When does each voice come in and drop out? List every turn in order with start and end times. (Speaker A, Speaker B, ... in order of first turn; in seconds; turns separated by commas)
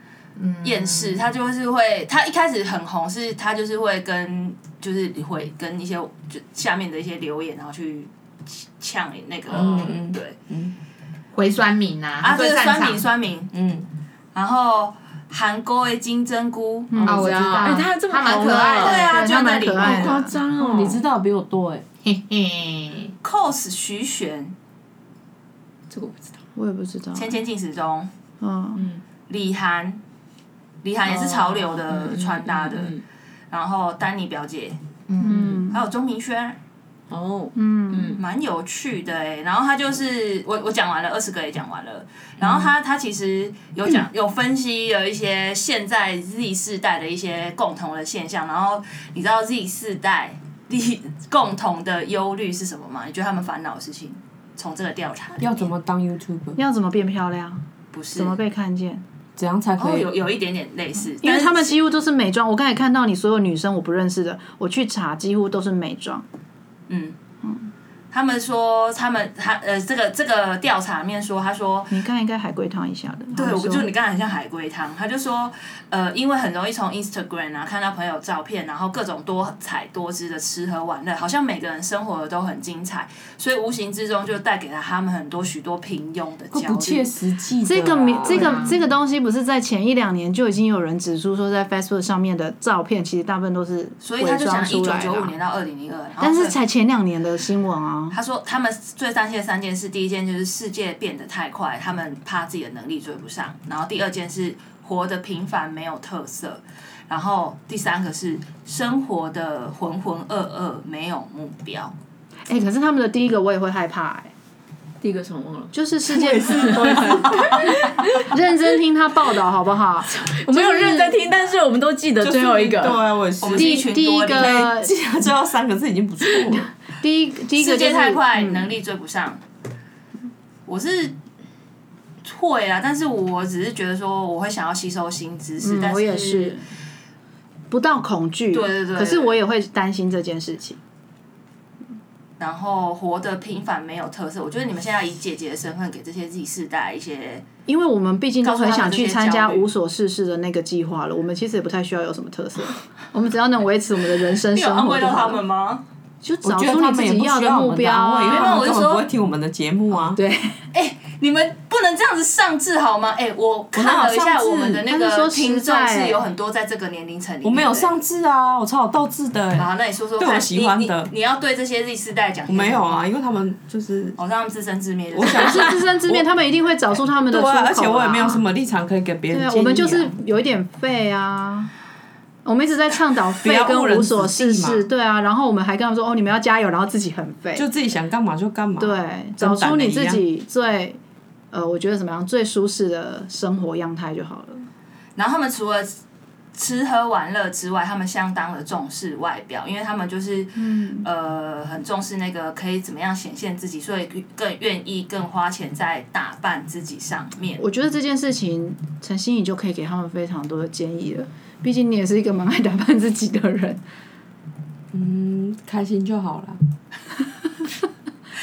Speaker A: 0.4-1.2, Speaker B: 0.6-10.4, Speaker C: 9.5-10.8, Speaker A: 11.3-13.0, Speaker B: 12.2-13.5, Speaker C: 13.5-13.9, Speaker B: 14.3-17.1, Speaker D: 16.9-17.5, Speaker A: 17.0-19.2, Speaker E: 17.1-19.1, Speaker B: 18.8-20.2, Speaker D: 18.9-20.4, Speaker E: 19.8-21.0, Speaker C: 20.6-21.9, Speaker A: 22.0-23.1, Speaker B: 23.2-24.6, Speaker E: 25.9-26.4, Speaker D: 26.6-27.4, Speaker B: 27.1-28.1, Speaker D: 28.4-28.8, Speaker E: 28.8-29.0, Speaker B: 29.3-30.0, Speaker B: 30.8-33.0, Speaker E: 31.8-33.0, Speaker B: 33.5-34.8, Speaker A: 35.1-35.5, Speaker D: 35.2-35.9, Speaker B: 35.7-36.6, Speaker E: 37.1-38.2, Speaker D: 37.5-38.2, Speaker B: 38.2-55.7, Speaker C: 55.4-56.6, Speaker D: 56.6-57.6, Speaker B: 57.9-58.4, Speaker D: 58.1-59.0, Speaker C: 59.4-60.1, Speaker B: 59.8-61.8, Speaker D: 61.2-66.2, Speaker B: 66.9-67.2, Speaker D: 67.4-67.7, Speaker B: 68.1-72.0, Speaker D: 71.9-73.9, Speaker B: 73.3-87.1, Speaker C: 86.5-88.7, Speaker D: 87.6-95.3, Speaker A: 88.2-88.7, Speaker B: 94.0-96.5, Speaker D: 96.2-98.2, Speaker B: 98.1-111.9, Speaker D: 112.5-114.3, Speaker E: 115.0-115.8, Speaker D: 115.7-121.3, Speaker C: 116.0-118.1, Speaker E: 120.1-123.0, Speaker C: 122.2-126.7, Speaker B: 123.4-124.7, Speaker D: 123.5-124.9, Speaker D: 126.5-128.8, Speaker B: 127.6-129.4, Speaker B: 130.7-131.2, Speaker B: 132.2-136.6, Speaker D: 135.6-136.7, Speaker D: 137.7-140.8, Speaker B: 138.5-139.4, Speaker B: 142.4-147.4, Speaker D: 147.7-155.4, Speaker B: 148.4-149.7, Speaker B: 154.5-155.8, Speaker D: 156.2-158.6, Speaker C: 156.4-160.2, Speaker B: 158.2-159.1, Speaker D: 160.1-160.6, Speaker B: 160.7-167.9, Speaker C: 163.7-164.8, Speaker D: 164.9-166.2, Speaker C: 167.4-171.1, Speaker B: 169.6-172.9, Speaker C: 172.5-174.2, Speaker B: 174.2-175.8, Speaker C: 175.1-176.3, Speaker D: 175.2-178.4, Speaker C: 177.2-180.1, Speaker D: 179.3-181.7, Speaker D: 182.4-187.7, Speaker C: 183.4-184.9, Speaker C: 187.6-190.2, Speaker D: 188.8-191.0, Speaker D: 191.5-194.7, Speaker B: 195.2-196.0, Speaker B: 196.6-207.6, Speaker D: 200.6-201.1, Speaker D: 207.6-213.8, Speaker C: 214.9-216.6